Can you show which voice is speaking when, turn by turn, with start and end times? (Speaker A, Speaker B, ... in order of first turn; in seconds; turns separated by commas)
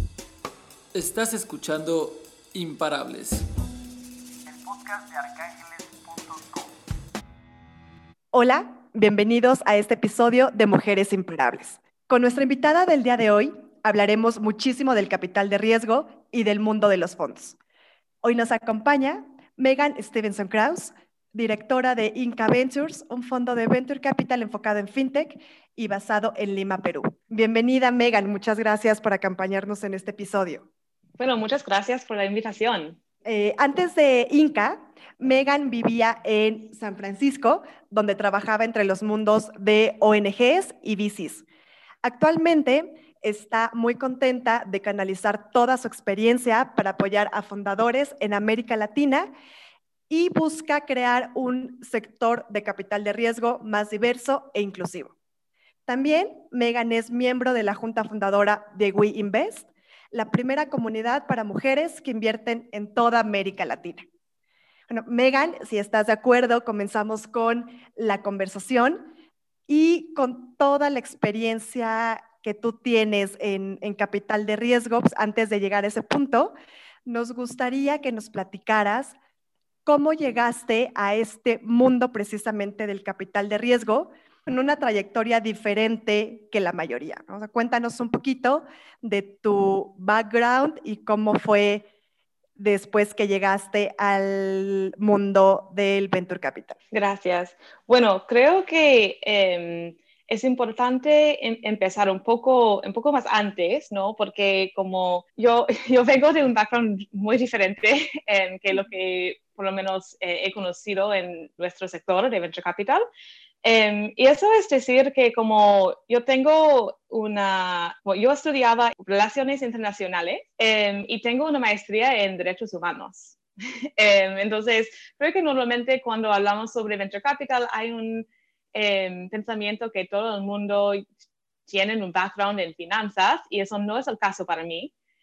Speaker A: 0.9-3.5, Speaker B: 4.5-6.7, Speaker C: 8.3-17.6, Speaker C: 18.2-30.7, Speaker D: 31.2-33.0, Speaker C: 33.2-41.5, Speaker C: 42.0-49.3, Speaker C: 50.1-55.1, Speaker C: 55.9-64.0, Speaker C: 64.9-69.1, Speaker C: 69.7-76.5, Speaker C: 77.1-79.2, Speaker C: 79.8-91.8, Speaker C: 92.6-96.8, Speaker D: 96.9-113.1, Speaker D: 113.6-123.4, Speaker D: 124.0-131.1, Speaker D: 131.7-134.9